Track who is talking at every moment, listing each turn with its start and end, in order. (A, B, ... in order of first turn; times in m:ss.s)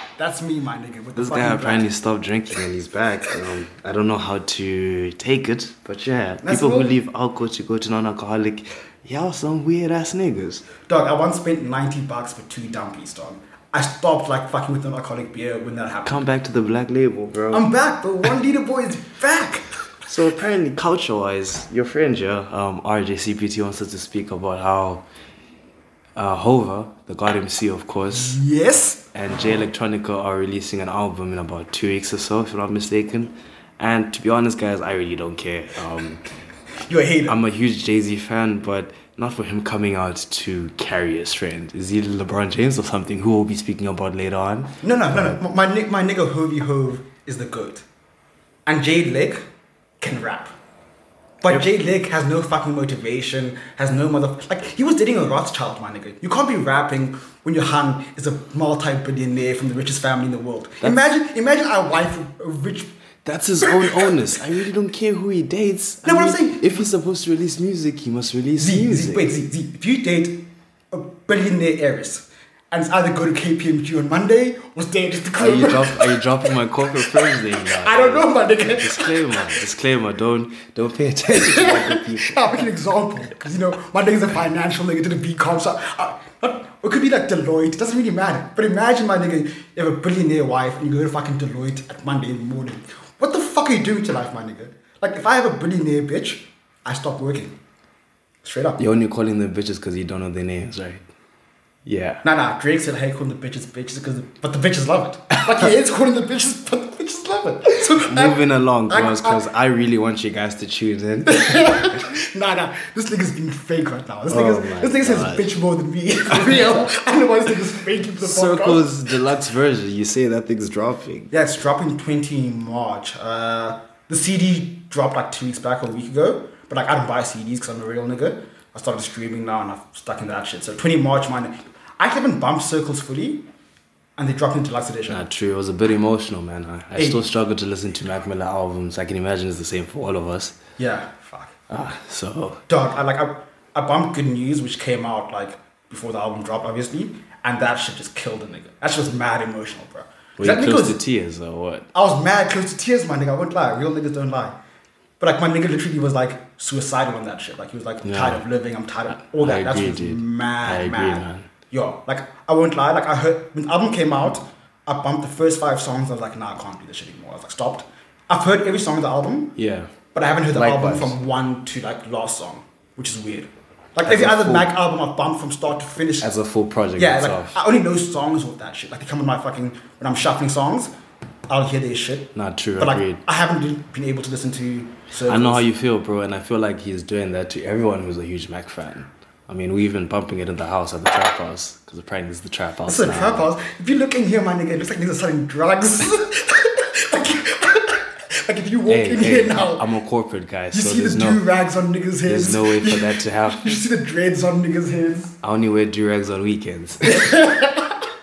0:00.2-0:01.9 A
0:01.2-0:10.6 B
0:06.4-0:06.9 A
0:10.8-0:16.2 A
0:16.0-0:17.6 B
0:17.5-0:19.7 A
0:20.1-0:25.0 B
0:26.2-0:28.4 B
0:28.1-0:29.0 A
0:29.1-0:36.2 B
0:36.8-0:37.4 A
0:37.3-0:45.4 B
0:44.8-0:47.8 A
0:48.6-0:49.4 A
0:50.0-0:50.5 A
0:51.4-1:02.9 A
1:00.8-1:01.1 B
1:03.2-1:09.3 B
1:03.6-1:04.0 A
1:06.0-1:06.8 A
1:08.6-1:19.6 A
1:15.4-1:22.7 B
1:21.3-1:37.5 A
1:38.4-1:38.8 A
1:38.8-1:41.0 B
1:41.8-1:42.2 B
1:42.2-1:49.4 A
1:48.0-1:51.3 B
1:51.2-1:58.9 A
1:54.3-1:55.5 B
1:58.2-2:01.3 B
2:01.3-2:13.5 A
2:14.2-2:15.2 A
2:15.1-2:20.5 B
2:16.9-2:17.2 A
2:20.8-2:21.5 A
2:21.7-2:22.6 B
2:22.7-2:31.0 A
2:30.4-2:31.9 B
2:31.9-2:34.5 A
2:35.2-2:49.5 A
2:38.0-2:38.4 B
2:39.1-2:41.5 B
2:49.6-2:49.9 B
2:50.1-2:56.3 A
2:50.5-2:51.2 B
2:54.0-2:54.7 B
2:56.2-2:57.6 B
2:57.0-3:00.9 A
3:01.5-3:05.7 A
3:02.3-3:03.2 B
3:05.2-3:13.5 B
3:12.8-3:19.9 A
3:18.9-3:21.4 B
3:20.7-3:25.3 A
3:22.2-3:23.8 B
3:25.4-3:27.4 B
3:27.0-3:27.9 A